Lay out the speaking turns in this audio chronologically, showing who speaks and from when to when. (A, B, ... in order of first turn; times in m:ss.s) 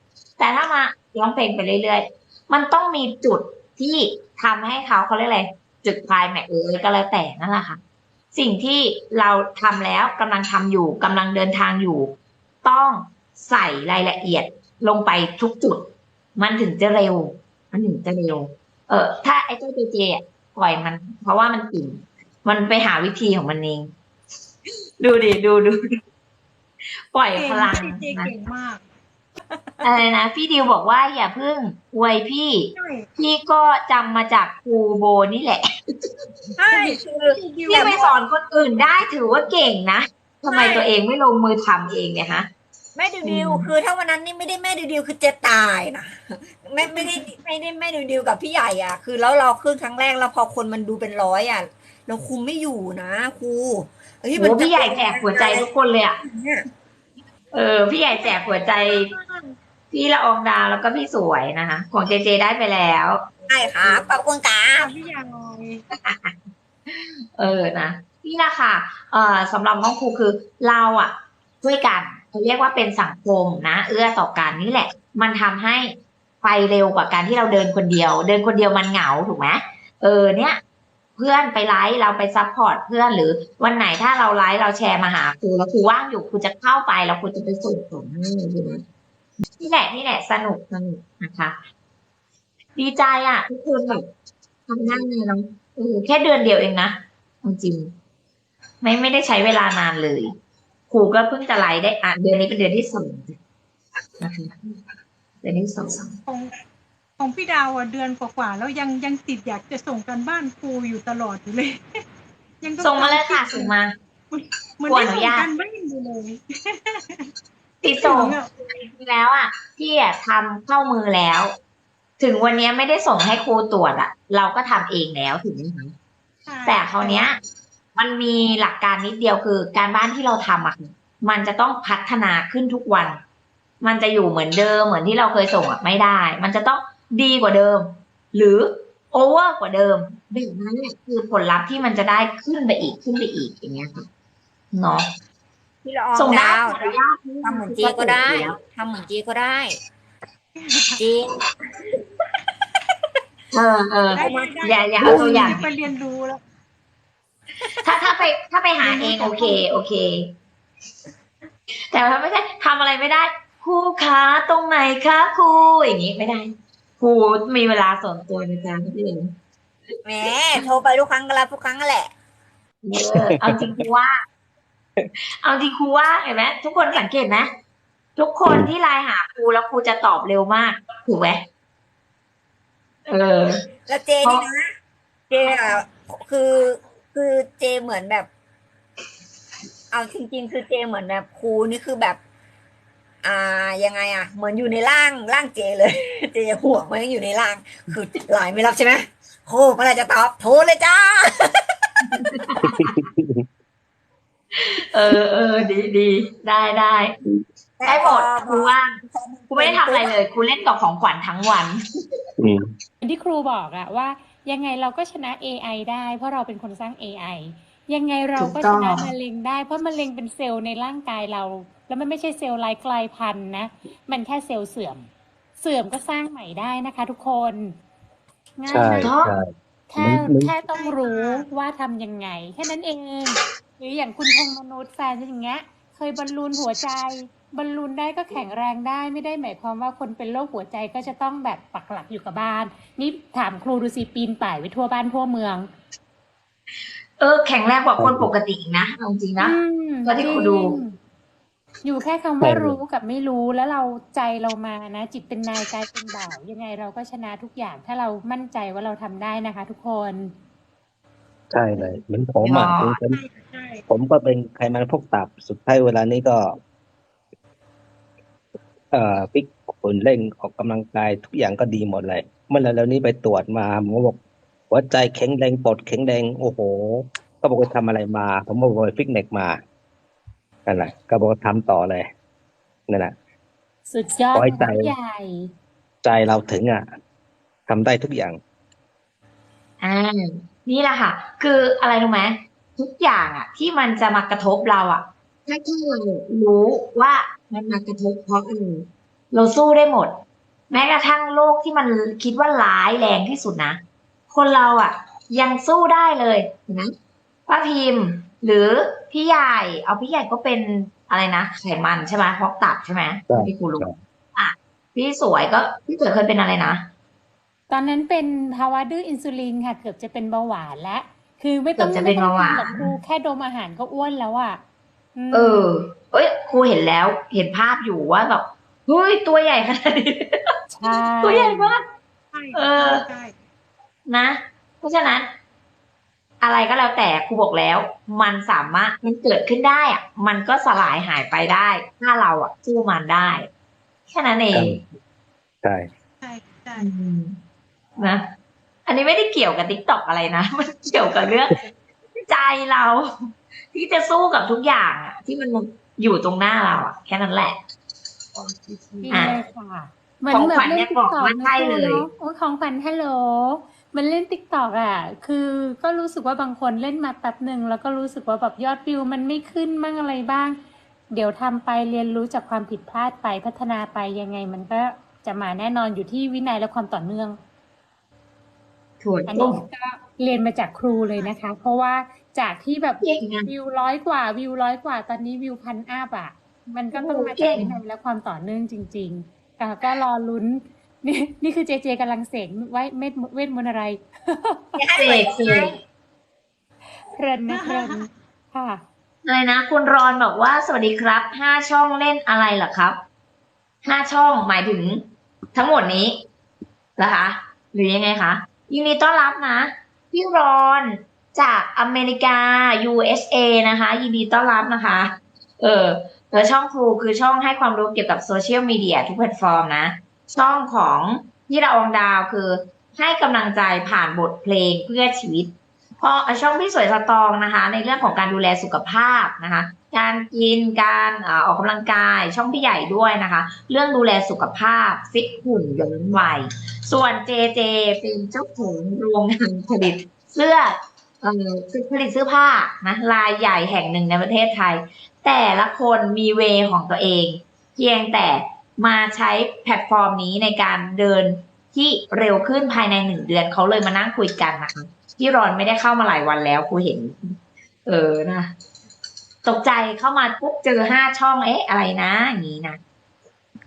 0:00.4-0:07.8 A
0:08.3-0:12.1 A
0:12.6-0:15.9 A
0:16.4-0:23.9 A
0:25.0-0:25.8 A
0:27.1-0:28.3 A
0:27.3-0:28.8 B
0:29.8-0:35.6 A
0:32.7-0:33.1 B
0:36.6-0:38.0 C
0:36.7-0:38.1 B
0:37.7-0:42.5 A
0:40.5-0:40.9 B
0:42.9-0:55.7 C
0:43.2-0:43.7 A
0:46.8-0:47.2 B
0:54.4-0:56.2 A
0:56.2-0:56.7 C
0:57.5-0:59.1 A
0:58.1-0:59.6 B
0:59.9-1:03.2 A
1:03.4-1:04.9 C
1:04.8-1:05.8 B
1:05.9-1:06.3 A
1:06.9-1:20.6 A
1:21.2-1:28.8 A
1:29.6-1:31.6 A
1:32.8-1:34.0 A
1:34.7-1:37.9 A
1:38.8-1:40.3 A
1:40.9-1:43.4 A
1:44.2-1:44.5 A
1:45.4-1:46.2 A
1:46.3-1:46.5 B
1:47.2-1:52.0 B
1:52.6-1:53.7 B
1:52.8-1:53.9 A
1:54.3-1:57.3 B
1:54.8-1:55.5 A
1:57.8-2:01.5 A
1:58.0-1:58.5 B
2:02.2-2:05.9 A
2:06.5-2:07.3 B
2:06.6-2:07.4 A
2:08.0-2:13.2 A
2:13.8-2:24.1 A
2:24.7-2:25.1 A
2:25.8-2:29.8 C
2:26.2-2:28.6 A
2:30.6-2:31.1 B
2:31.0-2:31.3 C
2:33.5-2:35.7 A
2:34.1-2:36.4 B
2:34.2-2:35.6 C
2:37.6-2:40.2 A
2:38.8-2:39.7 B
2:41.9-2:49.3 A
2:50.0-2:52.1 C
2:52.8-2:54.2 A
2:55.3-2:57.5 A
2:58.2-3:01.4 A
3:03.1-3:03.6 A
3:03.9-3:04.7 C
3:05.3-3:08.3 C
3:09.9-3:12.2 C
3:13.2-3:21.5 C
3:22.2-3:22.6 A
3:23.0-3:23.4 D
3:24.5-3:27.1 A
3:27.8-3:30.2 C
3:27.8-3:29.0 A
3:29.5-3:31.8 A
3:33.0-3:47.8 E
3:38.4-3:39.1 A
3:48.6-3:49.2 E
3:48.8-3:50.5 D
3:48.8-3:49.3 A
3:49.9-4:05.7 E
3:50.7-3:51.4 B
4:07.2-4:10.8 A
4:08.0-4:08.3 D
4:09.4-4:11.0 E
4:11.8-4:20.3 E
4:12.4-4:12.8 D
4:21.5-4:23.2 D
4:22.4-4:23.0 A
4:23.0-4:23.8 B
4:23.9-4:26.6 D
4:28.9-4:34.2 D
4:34.7-4:39.6 D
4:40.7-4:42.1 D
4:42.9-4:43.2 D
4:43.9-4:45.5 E
4:44.3-4:44.9 D
4:46.0-4:46.9 D
4:47.7-4:48.4 D
4:49.8-5:00.2 A
5:00.7-5:03.8 A
5:04.3-5:06.9 A
5:07.5-5:16.8 A
5:13.3-5:14.0 D
5:17.7-5:24.6 E
5:21.8-5:22.9 A
5:25.2-5:25.7 E
5:25.3-5:30.4 A
5:30.7-5:31.7 E
5:31.2-5:31.8 A
5:32.3-5:33.3 B
5:32.5-5:33.0 A
5:34.1-5:35.3 A
5:36.4-5:43.5 A
5:44.1-5:44.8 A
5:45.6-5:45.9 D
5:46.2-5:46.9 B
5:46.8-5:47.4 A
5:48.0-5:48.2 A
5:48.8-5:51.6 A
5:52.3-5:53.1 A
5:53.7-5:57.6 A
5:59.0-6:10.6 E
5:59.1-5:59.4 A
6:00.3-6:02.1 A
6:11.1-6:17.4 E
6:19.0-6:19.6 A
6:19.3-6:35.8 E
6:20.9-6:21.3 B
6:23.0-6:23.5 A
6:26.9-6:27.8 A
6:34.8-6:35.8 C
6:35.0-6:35.7 A
6:37.1-6:38.8 E
6:37.5-6:38.0 B
6:39.2-6:43.0 A
6:43.8-6:46.2 A
6:47.0-7:37.3 A
7:37.8-7:38.5 A
7:39.4-7:42.8 A